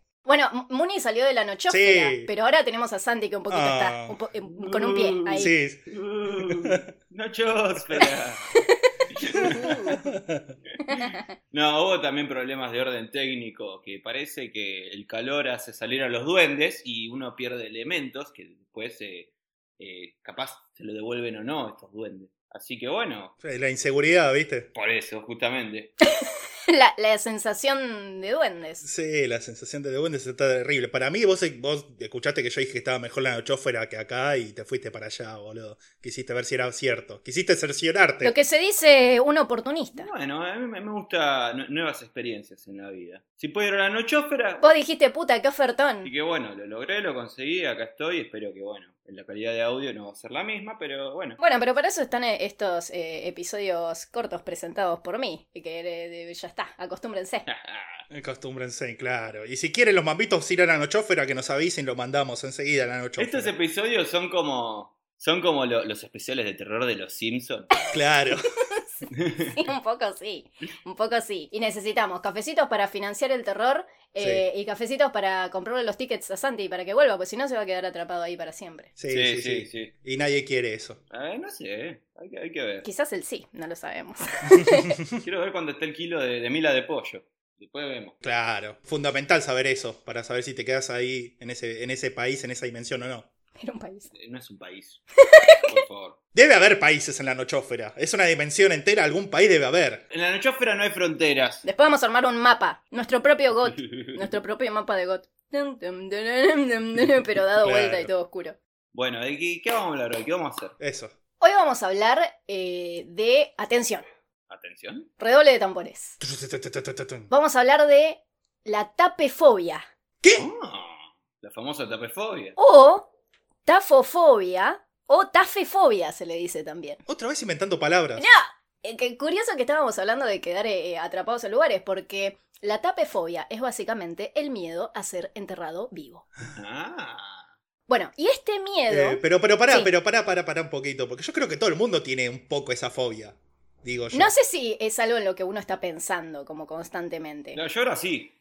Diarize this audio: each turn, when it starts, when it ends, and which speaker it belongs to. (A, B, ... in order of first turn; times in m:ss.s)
0:00.2-0:05.5 A
0:01.7-0:02.3 B
0:03.5-0:04.2 B
0:04.5-0:08.6 C
0:05.4-0:05.9 B
0:06.5-0:06.8 B
0:08.6-0:10.1 A
0:09.1-0:09.8 C
0:09.3-0:10.6 B
0:10.9-0:11.2 A
0:10.9-0:23.3 C
0:23.4-0:24.7 B
0:24.7-0:25.9 C
0:26.1-0:28.8 A
0:28.8-0:38.3 B
0:38.2-0:40.1 A
0:40.0-0:44.6 C
0:44.6-0:46.1 A
0:46.0-0:51.4 C
0:51.4-0:57.5 A
0:57.5-0:58.0 C
0:58.1-1:03.5 B
1:03.2-1:07.7 C
1:07.9-1:08.4 B
1:09.1-1:09.6 C
1:09.6-1:18.9 A
1:14.2-1:14.4 B
1:19.0-1:21.0 B
1:19.1-1:19.9 C
1:21.1-1:22.9 C
1:22.8-1:25.0 A
1:24.6-1:25.1 B
1:25.2-1:28.2 C
1:28.2-1:33.3 B
1:33.6-1:34.1 A
1:34.1-1:35.0 C
1:35.2-1:35.8 A
1:35.7-1:36.2 C
1:36.4-1:40.0 B
1:40.1-1:41.6 C
1:41.6-1:48.6 A
1:43.8-1:44.2 C
1:47.6-1:48.1 B
1:48.9-1:50.7 C
1:50.8-1:51.1 B
1:51.4-1:54.1 A
1:54.5-1:55.1 C
1:55.2-1:56.2 A
1:56.2-1:57.3 B
1:57.3-1:59.9 A
2:00.2-2:00.5 B
2:00.4-2:02.6 C
2:02.6-2:03.1 A
2:03.7-2:07.0 A
2:07.1-2:08.3 B
2:08.2-2:16.2 A
2:16.5-2:17.5 C
2:17.9-2:19.9 A
2:18.9-2:24.3 B
2:24.1-2:27.6 A
2:27.6-2:28.3 C